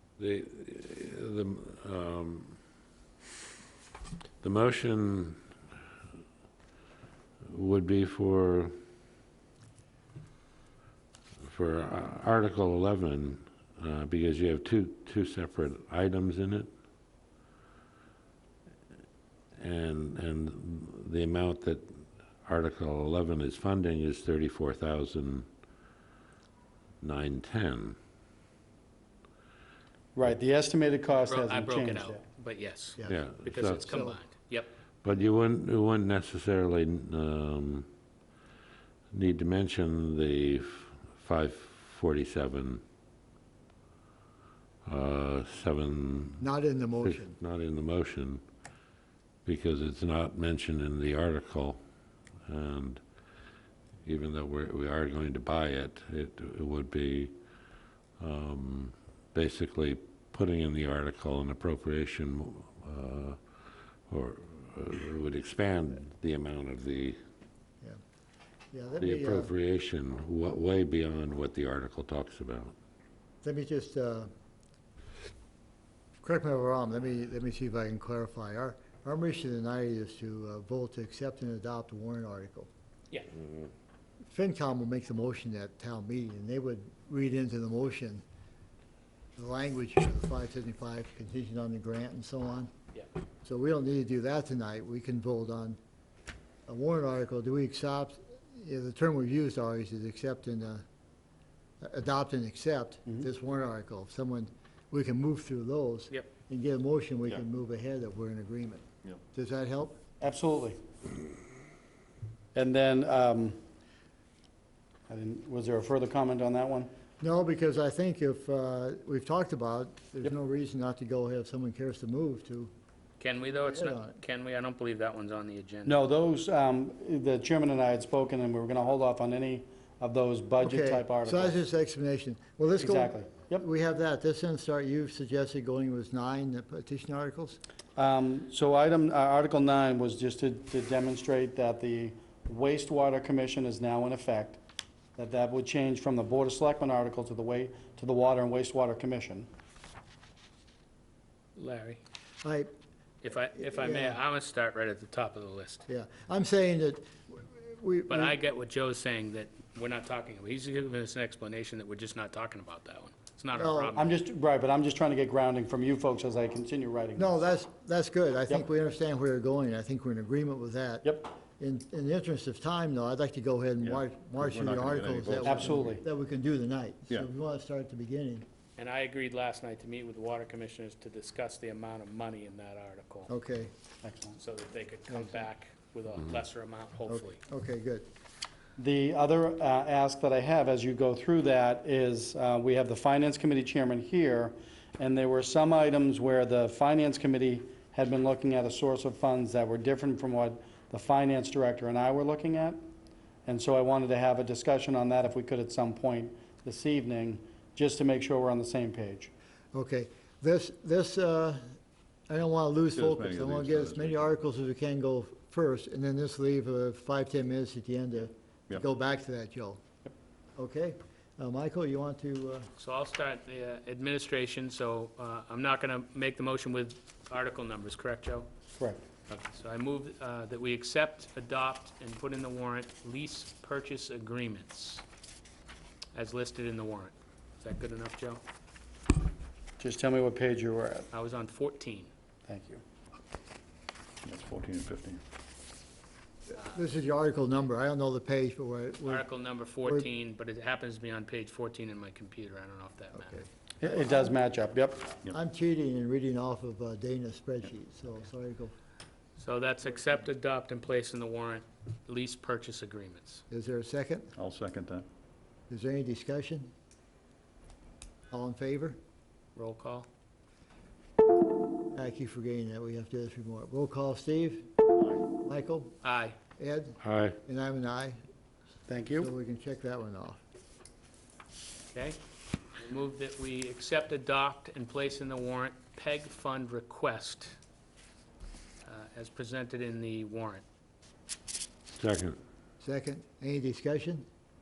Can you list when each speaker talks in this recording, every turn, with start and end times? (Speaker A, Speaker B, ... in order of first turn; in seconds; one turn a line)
Speaker A: 0.2-2.6
Speaker A: 4.4-5.4
Speaker A: 7.5-8.7
Speaker A: 11.4-16.7
Speaker A: 19.6-21.9
Speaker A: 22.4-25.5
Speaker A: 27.0-28.0
Speaker B: 30.2-32.2
Speaker C: 31.2-34.7
Speaker A: 33.1-34.0
Speaker D: 33.8-34.2
Speaker A: 35.0-37.9
Speaker A: 39.1-42.8
Speaker A: 44.9-46.5
Speaker D: 46.4-47.4
Speaker A: 47.0-48.4
Speaker A: 49.5-51.8
Speaker A: 52.5-53.0
Speaker A: 54.0-57.3
Speaker A: 58.2-63.4
Speaker A: 64.1-67.2
Speaker D: 68.7-69.5
Speaker A: 69.0-72.7
Speaker D: 73.4-74.3
Speaker D: 76.2-82.7
Speaker D: 84.3-88.2
Speaker D: 89.4-92.7
Speaker D: 93.5-95.8
Speaker D: 96.7-100.8
Speaker D: 101.8-110.0
Speaker B: 110.2-110.8
Speaker B: 112.5-113.6
Speaker B: 115.1-116.9
Speaker D: 117.2-122.7
Speaker C: 123.2-126.0
Speaker D: 123.6-124.2
Speaker B: 125.9-131.6
Speaker D: 130.6-137.6
Speaker B: 132.8-133.7
Speaker B: 138.0-144.6
Speaker B: 145.2-149.5
Speaker C: 151.6-152.0
Speaker D: 152.4-152.7
Speaker C: 153.2-155.9
Speaker D: 153.6-154.2
Speaker D: 155.9-158.4
Speaker C: 158.1-164.2
Speaker D: 163.5-163.9
Speaker B: 164.0-167.3
Speaker D: 167.2-178.5
Speaker B: 171.0-171.3
Speaker E: 173.8-176.0
Speaker B: 175.4-176.0
Speaker C: 178.8-183.3
Speaker D: 183.3-183.7
Speaker B: 184.0-184.4
Speaker C: 184.4-187.4
Speaker D: 185.1-185.5
Speaker D: 187.1-188.1
Speaker B: 188.8-202.8
Speaker B: 203.5-209.3
Speaker D: 209.7-211.8
Speaker D: 212.3-219.8
Speaker E: 212.9-214.3
Speaker D: 220.6-222.7
Speaker C: 222.8-228.5
Speaker B: 228.8-229.0
Speaker C: 229.3-235.0
Speaker C: 236.1-238.4
Speaker B: 239.8-241.1
Speaker C: 241.1-242.1
Speaker B: 242.5-242.8
Speaker E: 244.2-245.2
Speaker D: 246.5-249.3
Speaker C: 249.1-253.4
Speaker B: 253.8-255.0
Speaker D: 255.3-258.7
Speaker C: 259.4-263.4
Speaker D: 263.5-264.3
Speaker E: 264.4-265.1
Speaker D: 265.7-266.7
Speaker D: 268.3-269.0
Speaker C: 269.6-270.1
Speaker D: 271.9-274.7
Speaker D: 275.4-276.0
Speaker C: 276.0-276.4
Speaker D: 276.6-278.2
Speaker A: 277.0-277.4
Speaker B: 278.9-279.3
Speaker D: 279.1-280.4
Speaker C: 281.9-282.2
Speaker C: 282.8-287.6
Speaker C: 288.9-290.6
Speaker A: 291.9-292.4
Speaker D: 292.8-294.2